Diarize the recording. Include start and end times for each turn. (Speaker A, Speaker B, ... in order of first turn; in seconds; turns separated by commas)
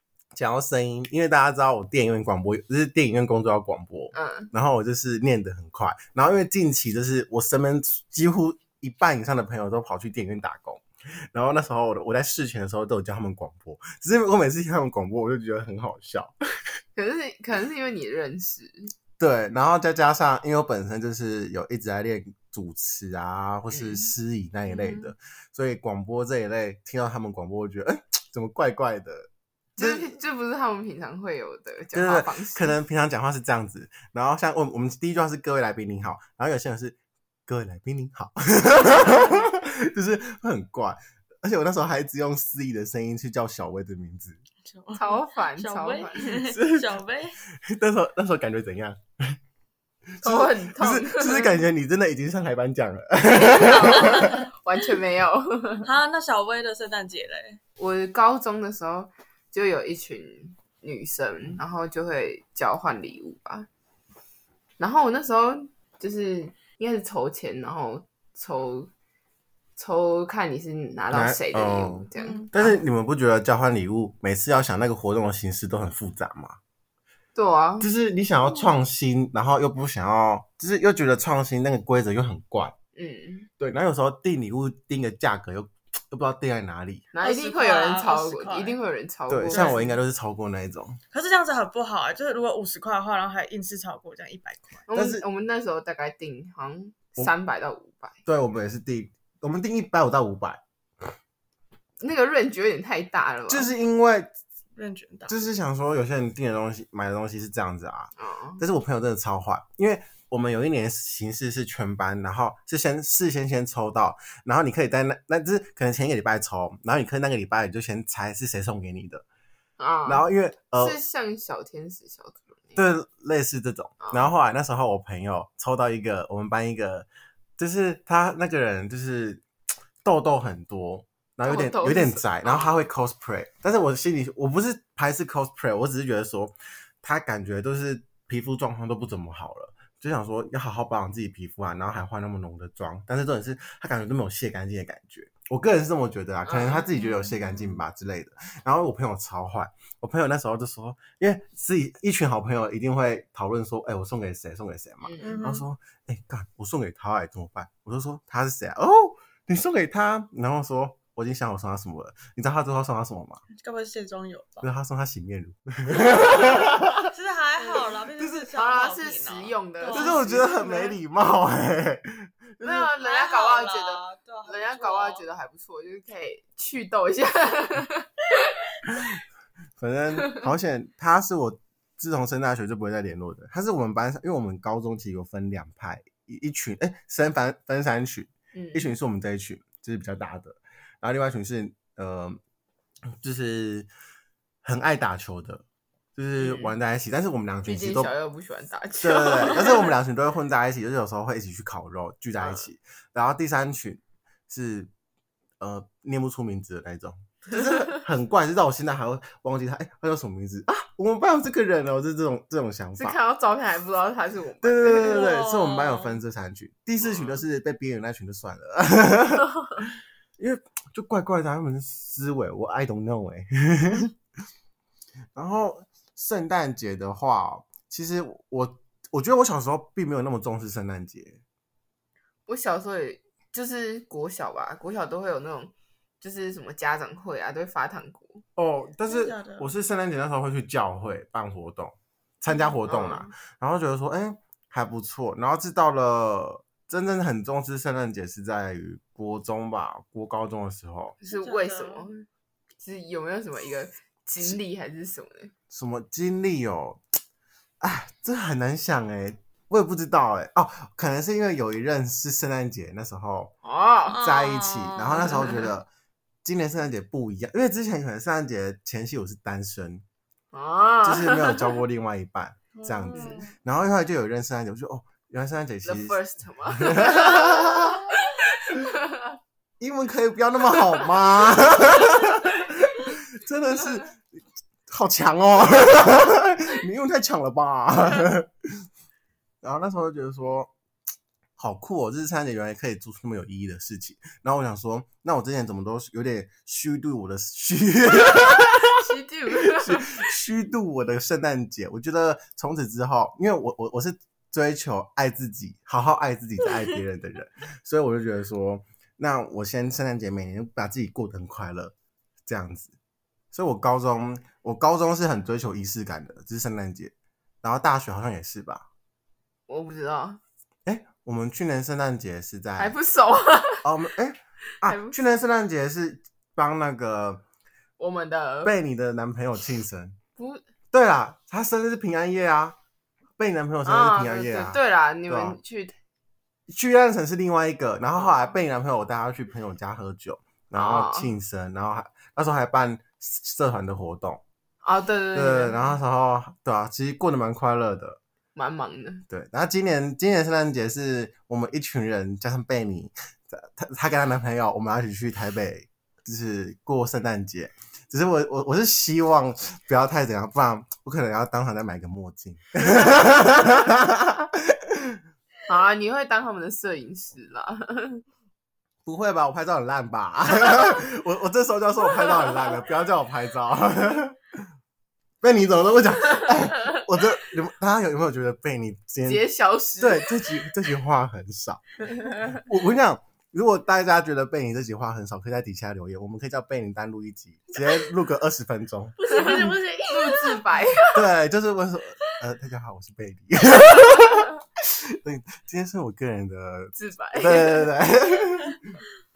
Speaker A: 0.3-16.3, Speaker B: 4.1-4.5, Speaker B: 16.9-18.9, Speaker A: 19.2-30.1, Speaker B: 23.7-24.1, Speaker C: 24.7-25.1, Speaker B: 29.8-32.8, Speaker A: 31.9-44.4, Speaker C: 44.6-47.4, Speaker B: 44.9-46.3, Speaker A: 46.3-46.9, Speaker A: 47.6-49.4, Speaker A: 50.2-54.5, Speaker B: 50.2-51.6, Speaker B: 53.3-55.9, Speaker C: 53.8-54.4, Speaker C: 55.8-57.6, Speaker B: 57.8-63.7, Speaker B: 64.8-68.9, Speaker B: 69.8-72.8, Speaker A: 71.1-76.6, Speaker C: 72.2-72.5, Speaker B: 77.3-77.9, Speaker A: 77.8-82.7, Speaker B: 82.9-83.5, Speaker A: 83.6-87.1, Speaker B: 87.1-89.9, Speaker C: 87.2-88.8, Speaker A: 89.3-91.0, Speaker C: 89.5-89.8, Speaker C: 91.1-94.8, Speaker B: 94.9-98.2, Speaker A: 94.9-95.2, Speaker A: 98.2-100.6, Speaker B: 102.0-103.7, Speaker A: 103.5-104.3, Speaker C: 104.8-105.3, Speaker A: 105.3-119.2, Speaker B: 108.2-108.6, Speaker B: 119.8-122.8, Speaker A: 120.0-121.0, Speaker A: 122.8-127.1, Speaker B: 124.0-124.3, Speaker A: 127.6-129.4, Speaker A: 130.0-163.4, Speaker B: 131.4-132.8, Speaker B: 146.4-146.9, Speaker C: 147.0-147.8, Speaker B: 155.0-155.4, Speaker C: 155.2-155.7, Speaker C: 163.5-164.7, Speaker A: 164.6-167.1, Speaker C: 167.0-170.7, Speaker B: 167.6-170.9, Speaker A: 169.9-172.9, Speaker B: 172.6-178.1, Speaker C: 172.9-175.2, Speaker A: 179.8-192.4, Speaker B: 188.5-188.9, Speaker A: 193.2-193.9, Speaker A: 194.6-195.6, Speaker A: 196.2-198.1, Speaker B: 196.4-196.7, Speaker B: 197.7-199.9, Speaker A: 199.0-204.9, Speaker B: 202.4-202.7, Speaker A: 205.6-213.2, Speaker B: 213.0-215.2, Speaker A: 214.6-224.1, Speaker C: 214.9-216.2, Speaker A: 225.3-231.4, Speaker B: 232.4-238.4, Speaker A: 238.6-251.2, Speaker C: 239.1-239.7, Speaker B: 242.8-243.3, Speaker B: 251.2-252.2, Speaker C: 251.2-252.1, Speaker B: 252.8-255.5, Speaker A: 255.7-257.0, Speaker A: 257.8-263.5, Speaker B: 263.6-264.2, Speaker C: 264.1-265.7, Speaker A: 264.2-265.9, Speaker A: 266.4-270.0, Speaker B: 270.5-271.7, Speaker A: 271.0-278.0, Speaker C: 272.7-273.5, Speaker B: 273.1-273.4, Speaker B: 275.8-278.1, Speaker B: 278.6-279.3, Speaker A: 279.8-284.2, Speaker A: 284.9-288.8, Speaker A: 289.6-290.7, Speaker A: 291.6-298.9, Speaker B: 298.7-300.2, Speaker A: 299.8-311.9, Speaker A: 312.5-312.9, Speaker A: 313.5-318.9, Speaker B: 319.7-320.4, Speaker A: 320.9-322.9, Speaker B: 322.8-323.9, Speaker A: 323.8-327.4, Speaker B: 324.8-325.2, Speaker B: 328.0-328.7, Speaker A: 328.6-330.2, Speaker B: 330.4-330.6, Speaker A: 330.9-332.8, Speaker A: 333.4-335.6, Speaker B: 333.8-335.9, Speaker A: 336.7-344.4, Speaker B: 338.1-338.5, Speaker B: 340.7-341.3, Speaker B: 344.8-346.0, Speaker A: 345.3-348.2, Speaker B: 348.5-349.2, Speaker A: 349.3-365.2, Speaker B: 365.7-368.2, Speaker A: 369.1-374.4, Speaker A: 375.4-379.4, Speaker B: 379.2-380.3, Speaker A: 380.0-389.2, Speaker C: 389.2-390.7, Speaker B: 389.3-391.2, Speaker A: 391.1-394.5, Speaker A: 395.0-398.8, Speaker B: 396.9-397.9